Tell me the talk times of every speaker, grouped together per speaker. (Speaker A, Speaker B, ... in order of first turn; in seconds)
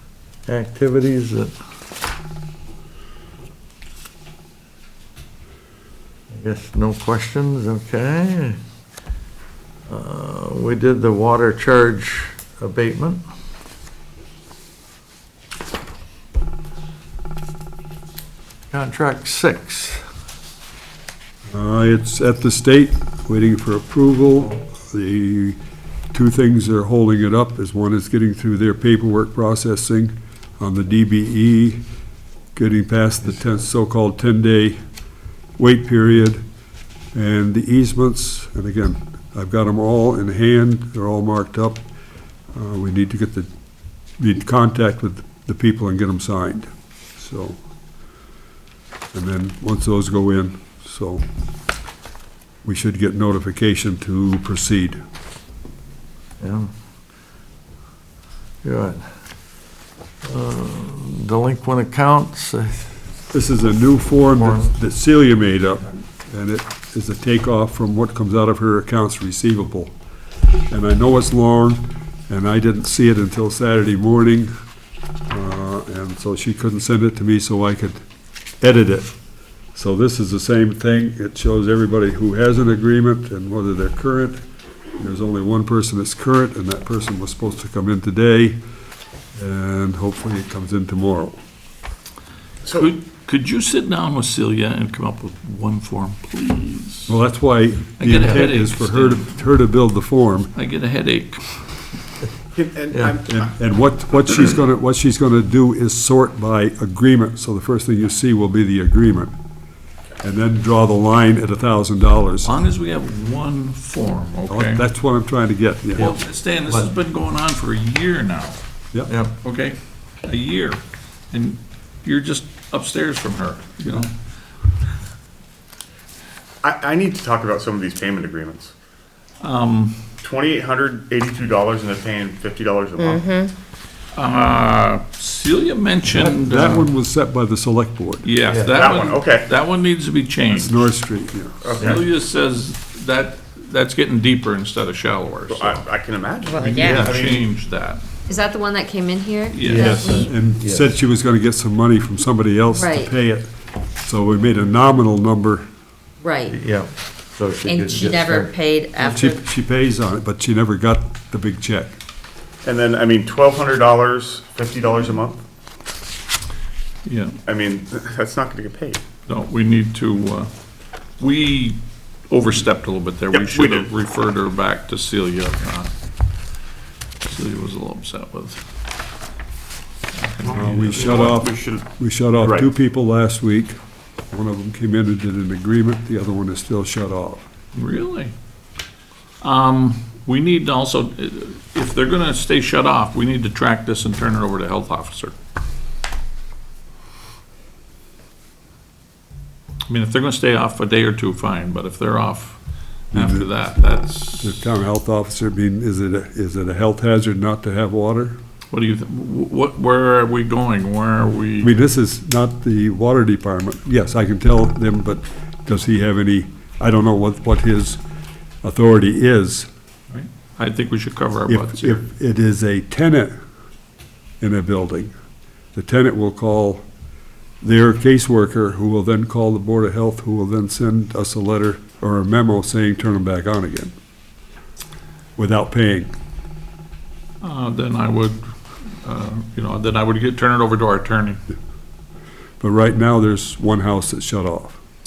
Speaker A: 0.5-1.5, 6.3-8.6, 9.9-13.2, 18.7-20.0, 56.4-56.7, 58.6-59.0, 60.2-62.9, 64.3-64.7, 116.7-116.9, 119.1-119.3, 138.5-138.8, 146.8-147.1, 149.6-150.9, 156.5-158.5
Speaker B: 21.5-25.6, 26.1-31.8, 32.5-34.8, 35.6-36.4, 37.1-41.8, 42.5-43.5, 44.2-47.6, 49.1-51.2, 52.6-55.0, 63.3-69.9, 70.7-74.5, 75.3-78.0, 78.6-79.1, 79.7-84.4, 85.0-88.6, 89.3-91.4, 97.1-100.5, 103.2-109.3, 110.2-112.5, 114.5-116.1, 136.1-138.3, 140.5-141.8, 149.8-153.5, 154.0-155.7, 159.0-161.9, 180.5-183.8, 184.3-187.4, 203.1-203.5, 204.4-208.4, 211.6-218.0, 218.6-219.7, 221.5-223.3, 224.4-225.1, 225.7-226.8, 227.6-233.9, 235.4-236.1, 242.6-244.8
Speaker C: 92.6-92.9, 102.5-103.5, 126.6-128.7, 130.2-133.2, 138.7-139.5, 141.6-142.0, 145.5-147.5, 162.6-165.4, 167.4-169.0, 173.3-173.9, 180.9-181.9, 182.4-182.7
Speaker D: 92.7-97.2, 98.0-99.3, 100.5-101.6, 112.4-114.8, 116.0-118.6, 119.4-120.8, 121.3-124.1, 129.4-130.0, 134.1-136.9, 138.2-140.9, 141.7-145.8, 146.6-148.0, 149.5-150.3, 167.0-167.4, 169.3-170.5, 171.2-175.9, 177.2-178.6, 180.1-181.3, 187.7-188.3, 189.4-195.3, 199.9-202.6, 203.1-204.5, 208.7-211.7, 220.1-222.0, 237.4-241.4
Speaker E: 133.0-133.5, 146.4-147.0, 148.3-150.3, 152.7-153.1, 156.2-156.6, 157.6-159.4